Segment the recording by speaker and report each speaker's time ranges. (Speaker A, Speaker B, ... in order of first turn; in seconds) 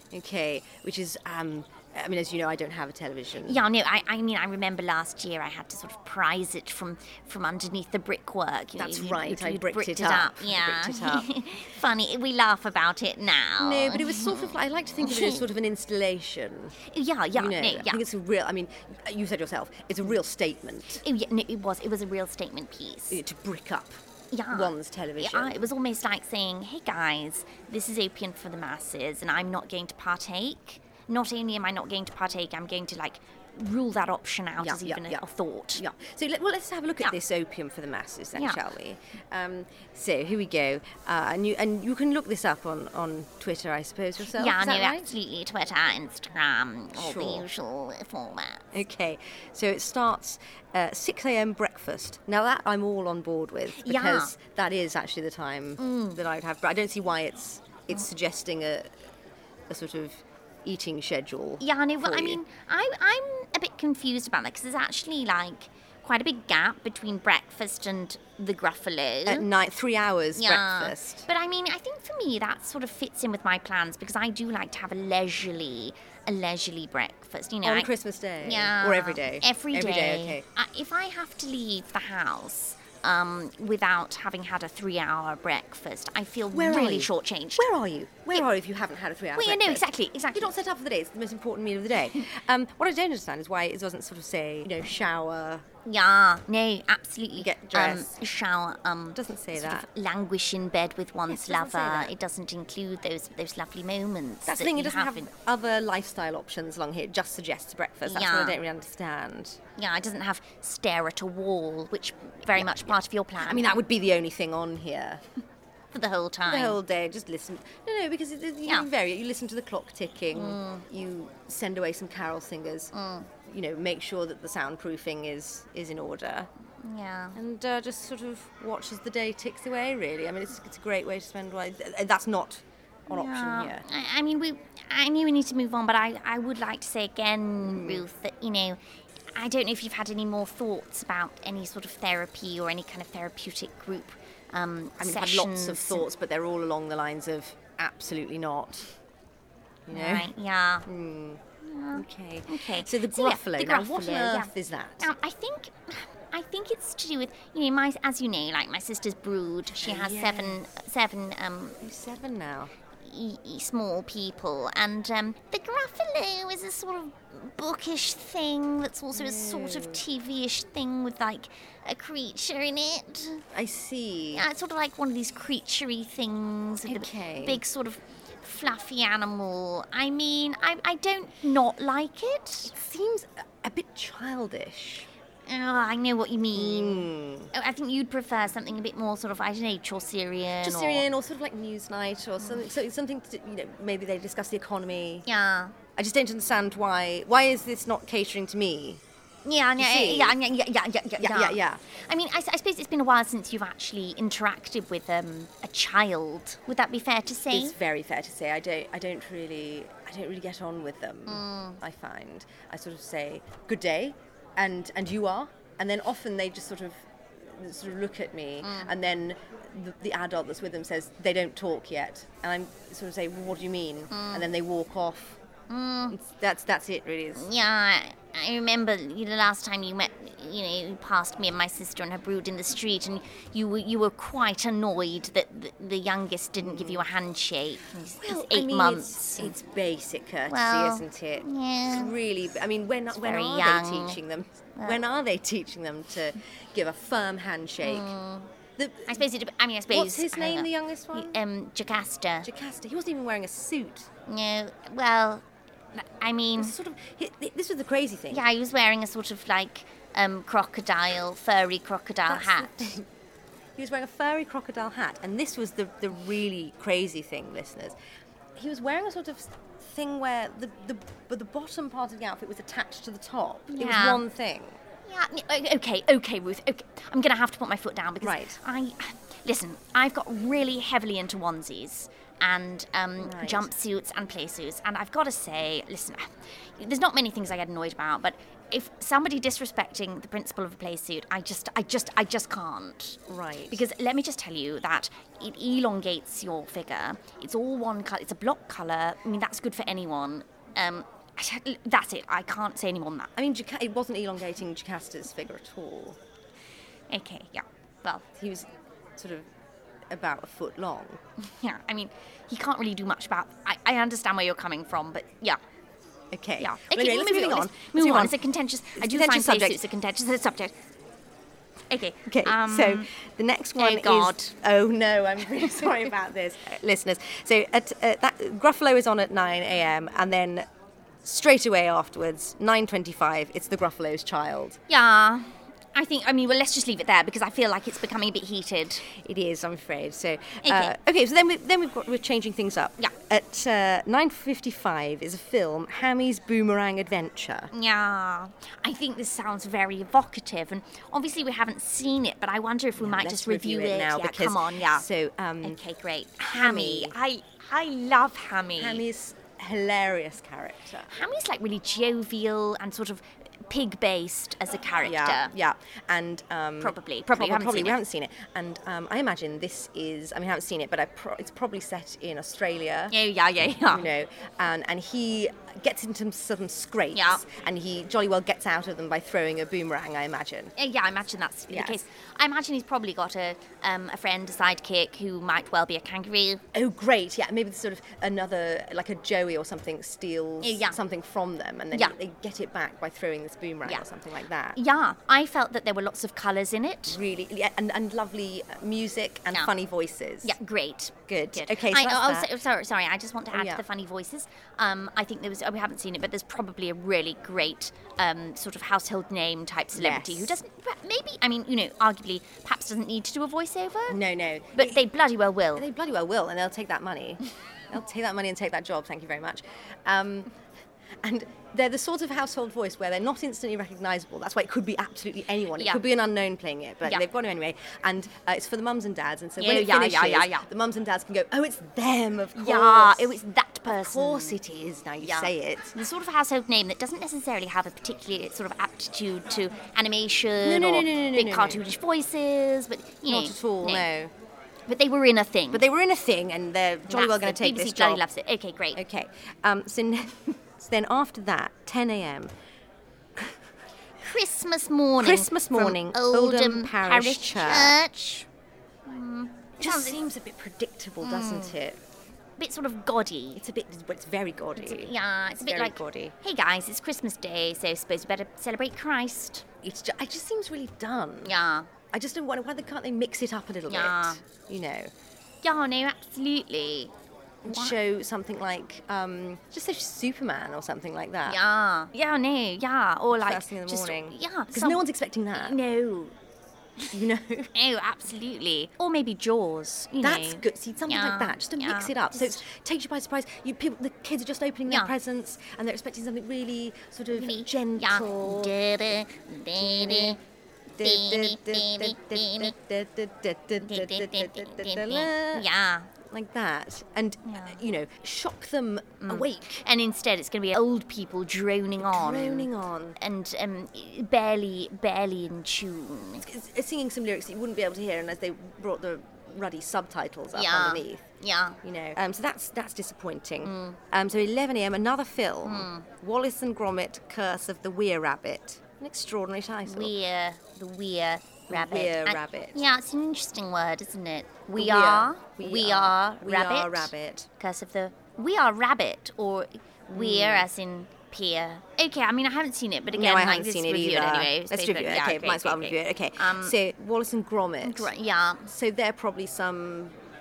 Speaker A: 0.1-3.6, 8.8-11.4, 13.6-16.8, 17.3-21.0, 23.1-23.9, 24.5-25.7, 34.6-35.2, 35.8-45.1, 47.0-47.5, 48.7-59.0, 59.7-62.4, 69.3-71.3, 77.6-80.5, 86.5-95.7, 97.4-98.1, 99.2-99.9, 101.3-102.1, 104.5-109.6, 112.6-115.2, 116.5-122.9, 123.5-126.5, 127.3-133.9, 137.6-138.1, 145.0-148.9, 149.9-150.3, 150.9-151.4, 151.9-155.1, 159.8-160.7, 161.8-162.7, 169.1-170.0, 173.5-174.5, 176.9-177.6, 182.7-185.1, 186.5-187.5, 190.6-195.3, 196.0-199.0, 199.8-200.4, 201.2-201.8, 207.5-225.4, 226.1-227.5, 236.6-237.1, 238.2-248.1, 248.8-249.2, 249.9-251.4, 252.4-254.1, 256.6-258.4, 262.3-263.1, 263.8-268.0, 268.6-274.8, 278.2-278.6, 283.2-283.7, 293.3-293.8, 303.4-306.2, 308.4-309.5, 310.1-311.2, 316.3-319.8, 322.3-330.7, 331.2-334.8, 339.1-347.7, 353.0-355.8, 356.4-357.2, 358.8-361.1, 365.0-373.1, 373.9-380.7, 381.7-382.0, 386.7-394.8, 397.1-400.6, 401.3-402.5, 403.5-403.8, 409.9-410.6, 414.1-415.0, 415.7-420.5, 421.2-436.0, 440.6-441.9, 443.3-444.3, 445.7-448.3, 448.9-452.5, 455.2-458.0, 459.8-462.0, 463.6-466.4, 469.8-471.6, 472.1-475.1, 477.6-481.6, 483.4-485.8, 487.1-487.7, 490.2-498.8, 499.8-500.4, 501.0-505.7, 506.3-509.8, 512.0-513.2, 516.5-521.3, 521.8-530.1, 531.7-532.9, 534.8-537.5, 540.1-540.7, 543.1-548.1, 548.7-550.2
Speaker B: 3.5-15.5, 16.8-18.0, 21.0-23.2, 24.3-35.8, 38.4-38.6, 44.4-48.7, 53.8-54.3, 55.8-56.2, 61.6-69.5, 70.4-77.9, 78.4-87.7, 89.4-90.5, 95.8-105.3, 108.1-108.6, 109.8-113.7, 115.9-116.8, 120.3-120.8, 122.9-123.3, 126.8-127.4, 133.1-138.8, 139.3-146.1, 149.9-150.9, 151.6-161.8, 163.0-173.4, 174.3-182.7, 185.5-191.1, 195.3-195.8, 199.4-207.8, 211.3-211.8, 218.6-218.9, 224.1-224.5, 225.7-226.2, 227.4-239.6, 240.5-242.1, 243.2-244.2, 247.8-248.5, 249.1-252.5, 254.3-255.4, 255.9-256.8, 258.3-263.0, 273.7-274.2, 275.1-293.2, 293.7-303.3, 307.1-308.2, 311.4-315.6, 316.6-320.7, 321.9-323.1, 323.8-324.5, 334.9-339.1, 340.6-340.9, 347.7-355.1, 355.6-359.0, 361.1-365.5, 366.8-368.0, 373.1-374.1, 377.1-377.4, 380.8-386.6, 390.6-391.0, 394.8-397.2, 400.4-414.2, 414.8-415.9, 429.6-430.7, 432.6-434.6, 435.2-444.1, 444.9-445.9, 447.1-449.0, 454.2-458.5, 459.1-460.2, 461.2-461.8, 462.6-463.6, 464.8-469.6, 471.4-471.9, 473.9-474.4, 475.6-477.1, 477.7-478.0, 481.5-485.0, 485.6-486.4, 487.8-492.6, 494.9-495.1, 497.3-500.4, 501.0-502.7, 503.8-506.1, 507.5-507.8, 509.2-516.5, 520.5-521.8, 523.6-524.0, 525.6-526.1, 529.9-546.8, 547.8-548.7